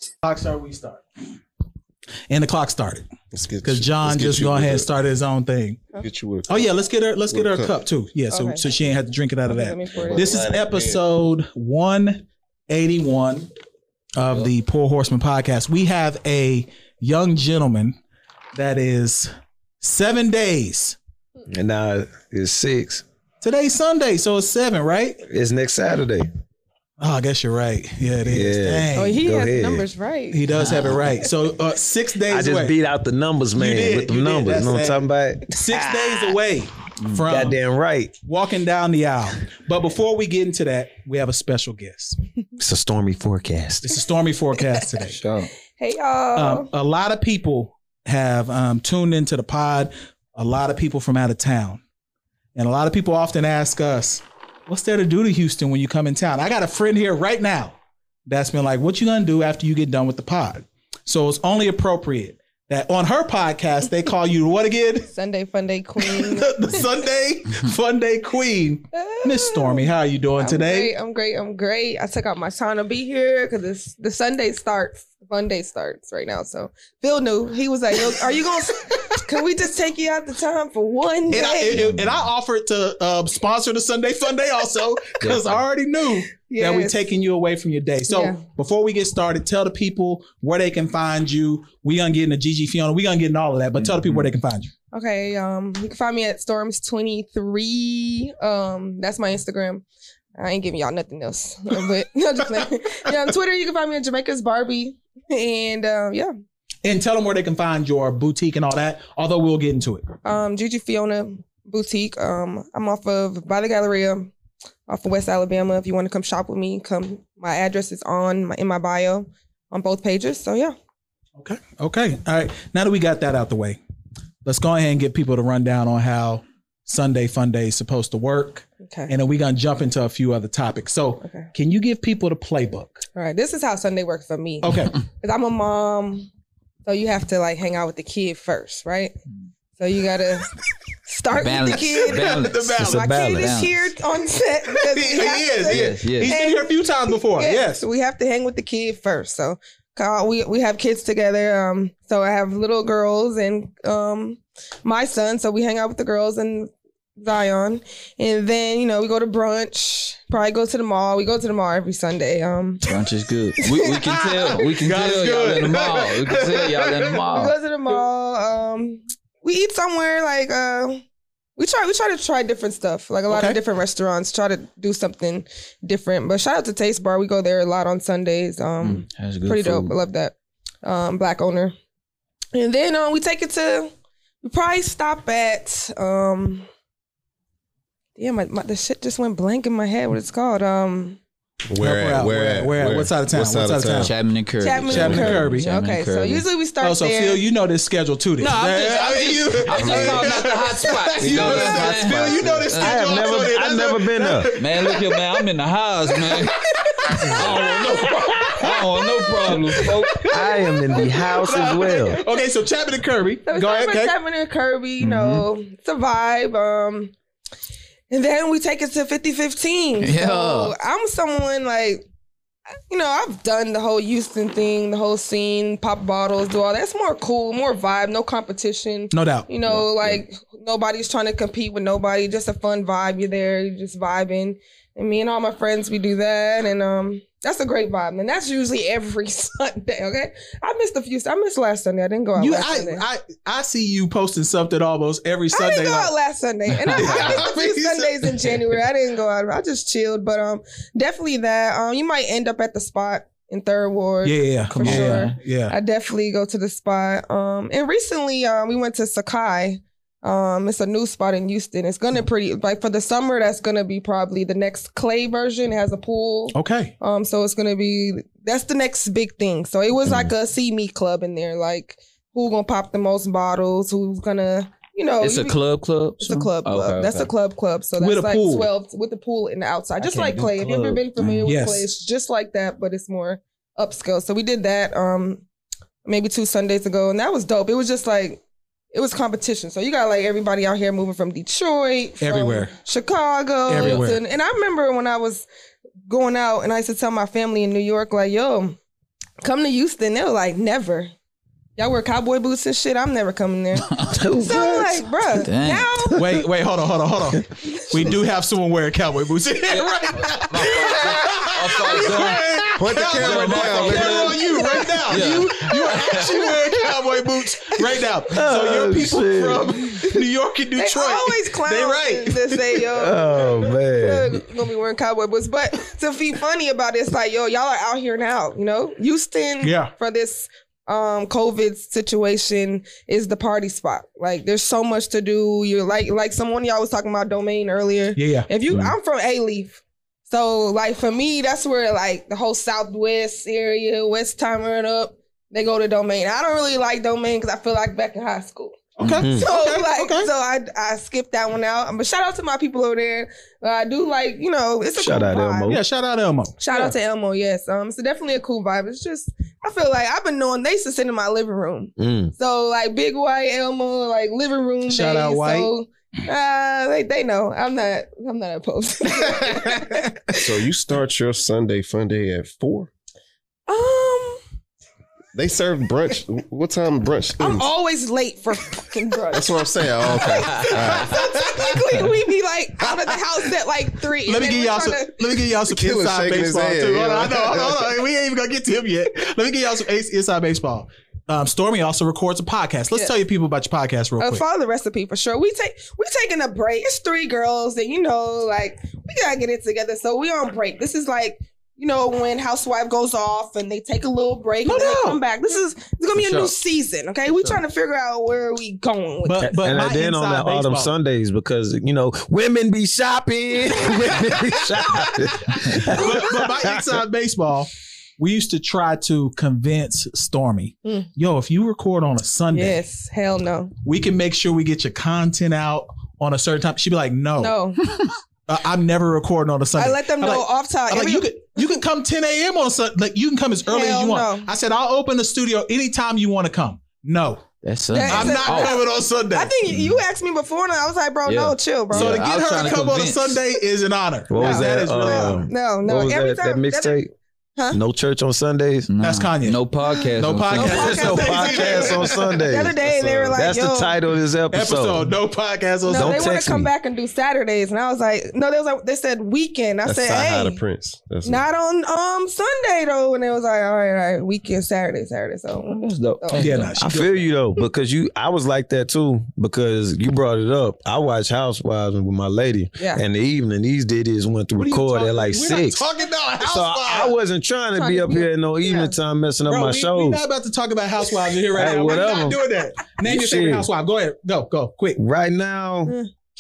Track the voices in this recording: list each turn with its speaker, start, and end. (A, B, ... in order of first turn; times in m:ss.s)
0:00.2-0:01.0 A
0:02.3-0:03.1 A
0:03.3-0:04.9 B
0:03.6-0:05.9 A
0:06.0-0:06.7 B
0:06.5-0:13.5 A
0:07.3-0:07.8 B
0:08.3-0:08.7 C
0:09.5-0:10.5 C
0:10.0-0:11.0 B
0:14.2-0:18.0 A
0:18.6-0:21.0 A
0:21.5-0:23.0 D
0:23.4-0:25.2 A
0:25.2-0:26.3 D
0:27.0-0:29.2 A
0:28.3-0:29.8 D
0:29.0-0:30.5 C
0:30.3-0:32.7 A
0:30.5-0:31.1 E
0:32.3-0:36.4 D
0:33.6-0:37.6 A
0:37.3-0:38.2 D
0:38.2-0:42.2 A
0:42.6-0:44.0 D
0:43.8-0:45.2 A
0:45.0-0:45.5 E
0:45.8-0:46.7 C
0:46.4-0:51.8 A
0:52.6-1:05.1 A
1:05.1-1:06.8 C
1:06.0-1:10.9 A
1:09.0-1:09.8 C
1:10.4-1:21.8 C
1:21.3-1:34.7 A
1:21.7-1:22.1 E
1:25.2-1:25.6 E
1:26.4-1:27.0 C
1:28.1-1:28.4 C
1:33.8-1:34.3 E
1:34.9-1:39.8 C
1:40.4-1:46.3 C
1:46.8-1:50.1 A
1:50.2-1:54.3 C
1:54.9-2:00.8 C
2:01.4-2:03.8 A
2:04.4-2:13.0 A
2:08.8-2:09.1 C
2:11.2-2:11.5 C
2:13.2-2:16.3 C
2:14.6-2:15.0 A
2:16.8-2:19.2 C
2:19.8-2:20.5 C
2:21.1-2:42.8 C
2:21.4-2:23.9 E
2:21.8-2:23.1 A
2:22.8-2:23.6 D
2:24.7-2:27.8 A
2:25.7-2:26.4 E
2:42.9-2:47.5 E
2:43.9-2:47.1 A
2:47.3-2:51.0 C
2:51.6-3:01.7 C
2:53.3-2:53.6 A
2:58.8-2:59.9 E
3:02.5-3:06.7 C
3:08.2-3:11.2 C
3:11.7-3:14.1 B
3:11.8-3:14.1 A
3:14.0-3:16.4 E
3:14.6-3:17.4 C
3:14.8-3:15.7 A
3:16.8-3:25.4 A
3:18.4-3:23.5 E
3:19.7-3:20.4 B
3:21.2-3:24.5 D
3:24.6-3:30.4 E
3:26.2-3:30.4 A
3:27.5-3:28.1 C
3:30.3-3:32.2 D
3:31.0-3:34.2 A
3:33.5-3:37.1 C
3:35.0-3:35.5 E
3:38.1-3:42.1 C
3:40.0-3:40.7 E
3:42.9-4:03.1 C
3:49.1-3:49.5 A
3:49.7-3:50.2 E
4:02.4-4:06.1 A
4:05.5-4:35.6 C
4:06.9-4:08.6 A
4:14.2-4:15.8 A
4:14.7-4:15.4 E
4:26.5-4:27.0 A
4:35.2-4:37.3 E
4:36.2-4:45.4 C
4:38.0-4:38.7 A
4:40.0-4:41.5 E
4:41.4-4:41.9 A
4:46.0-4:48.4 C
4:48.9-4:55.5 C
4:52.2-4:52.7 A
4:53.7-4:54.2 A
4:53.8-4:54.0 E
4:56.1-4:58.8 C
4:59.4-5:01.1 C
5:01.8-5:06.2 C
5:04.0-5:05.1 D
5:05.4-5:05.9 E
5:06.2-5:22.8 A
5:09.7-5:16.6 E
5:12.8-5:15.0 B
5:16.1-5:16.5 C
5:18.3-5:19.7 D
5:20.8-5:48.8 C
5:23.0-5:24.3 D
5:29.6-5:29.9 A
5:38.2-5:38.5 A
5:49.0-5:50.3 A
5:49.0-5:49.2 E
5:49.2-5:49.5 D
5:49.4-5:55.8 C
5:55.0-5:55.8 D
5:55.7-5:56.9 A
5:56.6-6:10.5 C
6:02.0-6:02.3 D
6:04.9-6:05.7 A
6:09.4-6:10.0 A
6:10.3-6:12.9 B
6:13.7-6:14.4 C
6:15.4-6:17.7 B
6:17.4-6:25.3 C
6:19.3-6:21.3 B
6:20.2-6:22.0 A
6:24.3-6:34.4 A
6:25.7-6:27.9 B
6:34.2-6:49.5 C
6:44.6-6:45.2 A
6:46.2-6:46.5 E
6:49.2-6:50.9 A
6:49.4-6:56.8 D
6:55.5-7:02.8 A
7:02.5-7:03.7 C
7:03.8-7:07.6 A
7:07.4-7:07.8 C
7:08.5-7:17.5 A
7:09.8-7:11.3 C
7:13.7-7:14.5 C
7:17.6-7:18.8 E
7:17.9-7:22.2 C
7:18.0-7:19.5 A
7:21.3-7:23.4 E
7:21.9-7:25.4 A
7:24.3-7:27.1 D
7:24.4-7:27.0 C
7:27.7-7:28.9 D
7:28.9-7:31.3 E
7:29.0-7:29.6 A
7:30.2-7:32.2 A
7:30.5-7:34.0 C
7:30.7-7:35.1 D
7:32.8-7:33.4 B
7:34.5-7:36.3 A
7:35.8-7:40.6 C
7:35.9-7:36.7 D
7:39.9-7:41.4 B
7:41.2-7:46.6 C
7:45.7-7:46.8 E
7:46.4-7:47.2 A
7:46.8-7:55.8 D
7:52.8-7:53.0 C
7:54.6-7:57.1 A
7:56.4-8:00.2 D
7:57.8-7:58.9 C
7:59.5-8:05.0 A
8:01.5-8:02.4 D
8:01.6-8:02.2 C
8:03.0-8:03.7 D
8:05.0-8:06.0 D